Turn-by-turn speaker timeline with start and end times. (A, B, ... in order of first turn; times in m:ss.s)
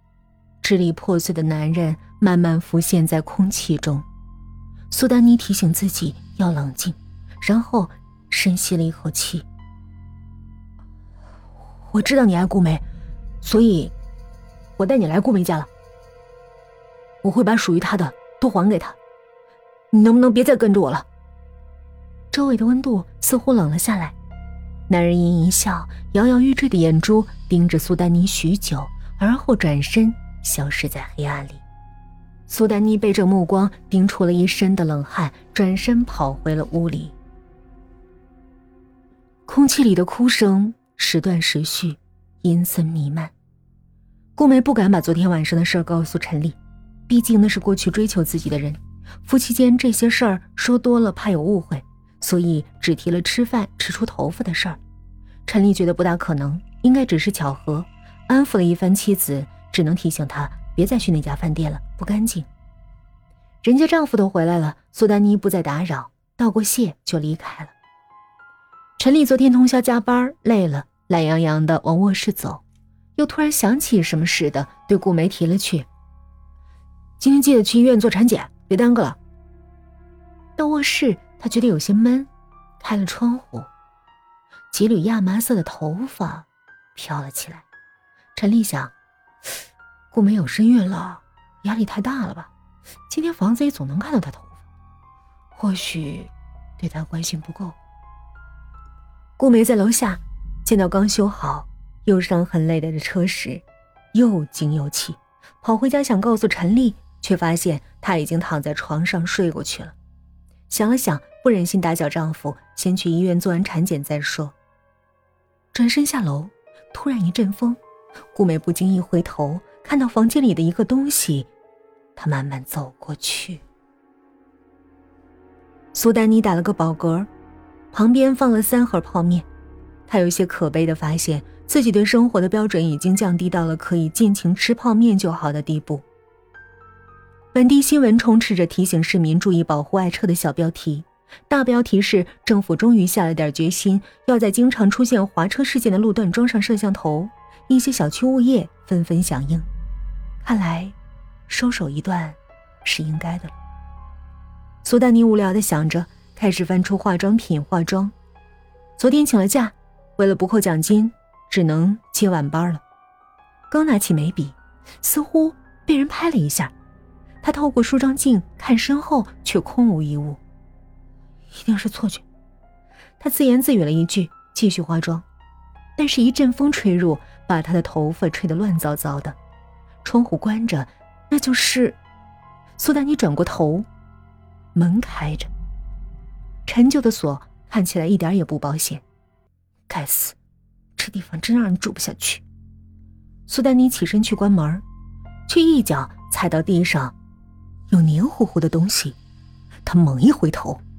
0:00.6-0:04.0 A
0:04.9-0:09.5 A
0:11.9-0:12.8 A
0:13.4-0:13.9 A
0:14.8-0:15.7 A
0:17.2-0:19.0 A
0:19.9-0:21.1 A
0:22.3-0:24.1 A
0:24.9-0:31.6 A
0:32.5-0:37.2 A
0:39.5-0:43.3 A
0:44.4-0:46.6 A
0:47.1-0:54.8 A
0:55.4-1:02.5 A
1:03.6-1:07.7 A
1:09.0-1:12.6 A
1:13.2-1:15.9 A
1:17.2-1:19.2 A
1:20.6-1:23.7 A
1:24.7-1:27.6 A
1:28.4-1:28.9 A
1:30.1-1:32.5 A
1:33.1-1:34.6 A
1:35.6-1:37.8 A
1:39.4-1:50.0 A
1:50.7-1:54.6 A
1:55.7-1:57.8 A
1:58.3-2:01.5 A
2:02.2-2:03.6 A
2:05.9-2:07.3 A
2:07.9-2:09.5 A
2:10.1-2:16.0 A
2:17.5-2:29.7 A
2:30.4-2:30.9 A
2:31.5-2:33.5 A
2:34.8-2:38.1 A
2:39.0-2:42.8 A
2:43.7-2:46.7 A
2:47.4-2:50.4 A
2:51.5-2:52.2 A
2:53.2-2:55.2 A
2:56.0-2:59.4 A
3:00.0-3:02.0 A
3:02.8-3:03.9 A
3:04.8-3:05.5 A
3:06.7-3:09.0 A
3:09.9-3:10.4 A
3:11.0-3:12.4 A
3:13.5-3:14.8 A
3:15.5-3:17.1 A
3:17.9-3:19.2 A
3:19.8-3:20.8 A